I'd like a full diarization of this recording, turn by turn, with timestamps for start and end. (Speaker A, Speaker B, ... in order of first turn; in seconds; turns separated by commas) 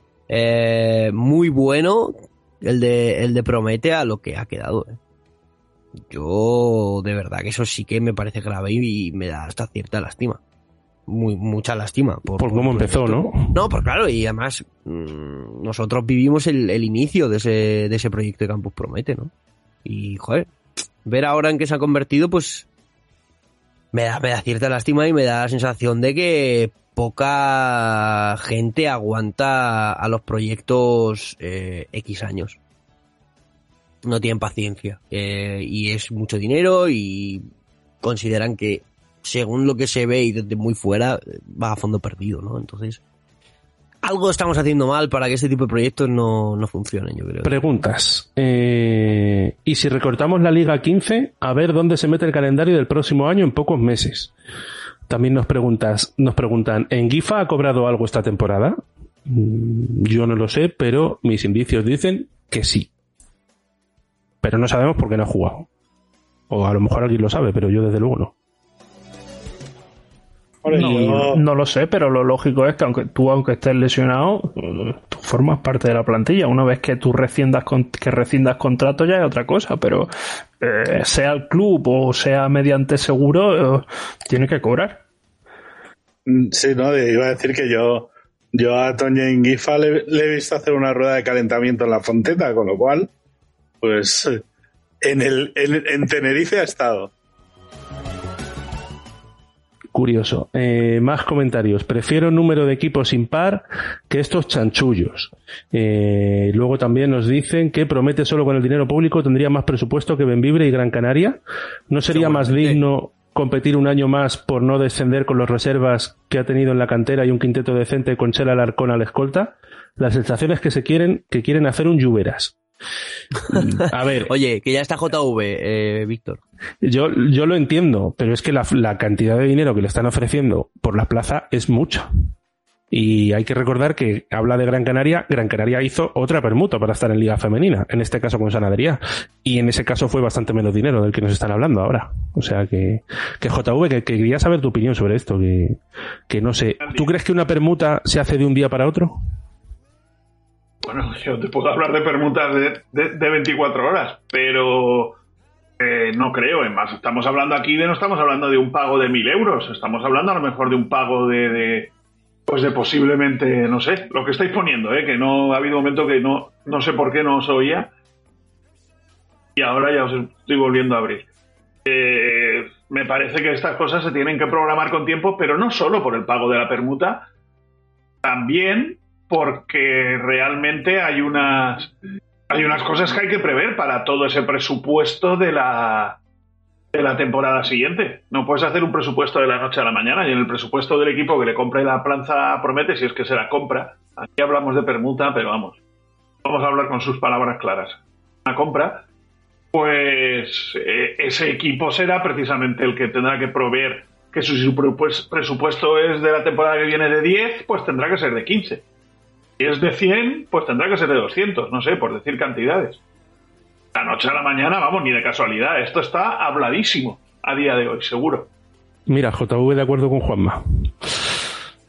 Speaker A: 0.3-5.0, Speaker A: 6.1-10.4, Speaker A: 11.1-19.3, Speaker B: 12.4-13.6, Speaker A: 19.9-20.5, Speaker A: 21.1-22.7, Speaker A: 23.9-32.6, Speaker A: 34.0-37.5, Speaker A: 38.0-43.0, Speaker A: 44.0-47.6, Speaker B: 47.4-54.3, Speaker B: 55.1-62.9, Speaker B: 64.4-65.7, Speaker B: 66.5-68.3, Speaker C: 70.6-71.4, Speaker D: 70.7-80.1, Speaker B: 70.8-71.2, Speaker D: 80.6-85.0, Speaker C: 86.3-93.1, Speaker C: 93.8-94.4, Speaker C: 95.0-97.1, Speaker B: 99.9-122.6, Speaker A: 112.1-112.8, Speaker B: 123.5-124.3, Speaker A: 124.3-126.4, Speaker B: 126.8-132.1, Speaker B: 132.9-149.2, Speaker E: 146.8-147.1, Speaker E: 150.8-155.2, Speaker E: 155.8-161.9, Speaker E: 162.5-167.9, Speaker E: 169.6-171.3, Speaker E: 171.8-177.3, Speaker E: 178.2-181.9, Speaker E: 182.5-186.2, Speaker E: 186.9-195.8, Speaker E: 196.4-199.1, Speaker E: 199.7-208.8, Speaker E: 209.6-213.0, Speaker E: 213.9-218.5, Speaker B: 219.1-221.2